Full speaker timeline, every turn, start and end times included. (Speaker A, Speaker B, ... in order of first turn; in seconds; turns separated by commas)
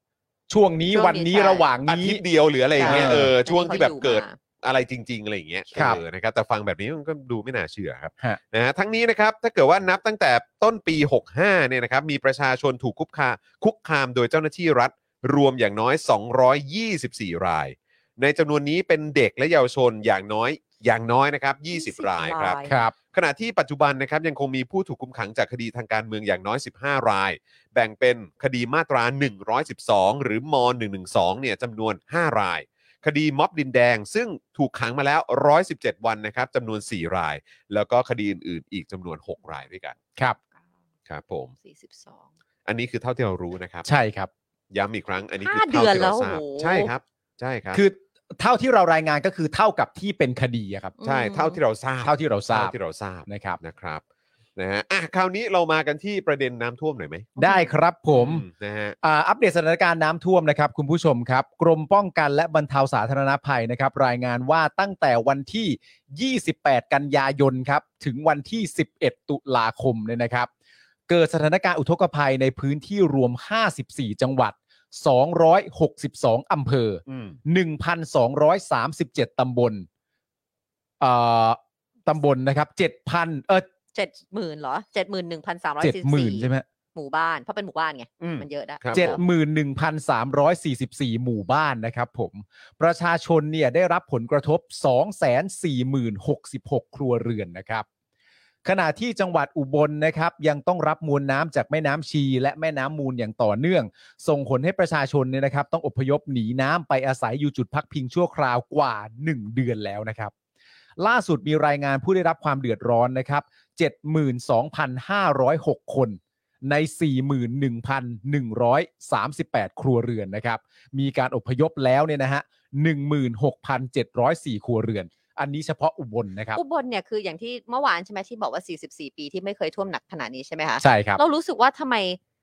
Speaker A: 0.5-2.2, Speaker B: 0.9-1.7, Speaker C: 1.9-40.0, Speaker B: 2.8-4.4, Speaker A: 2.8-3.3, Speaker A: 5.7-6.0, Speaker B: 21.7-22.8, Speaker A: 22.7-22.9, Speaker C: 41.1-41.5, Speaker B: 41.6-42.3, Speaker C: 42.6-43.9, Speaker A: 43.8-44.3, Speaker C: 44.7-47.8, Speaker B: 45.4-46.9, Speaker A: 47.7-50.9, Speaker B: 51.0-51.6, Speaker C: 51.0-54.0, Speaker A: 52.0-52.7, Speaker A: 53.2-53.6, Speaker C: 54.5-57.3, Speaker A: 57.4-58.4, Speaker B: 57.4-57.7, Speaker C: 58.1-59.0, Speaker A: 59.0-70.5, Speaker A: 71.1-79.9, Speaker C: 77.1-77.4, Speaker A: 81.0-83.7, Speaker B: 83.9-89.2, Speaker A: 85.8-86.6, Speaker C: 88.2-89.2, Speaker A: 88.9-97.8, Speaker A: 98.6-110.3, Speaker A: 111.0-126.6, Speaker B: 126.5-132.2, Speaker A: 130.8-131.2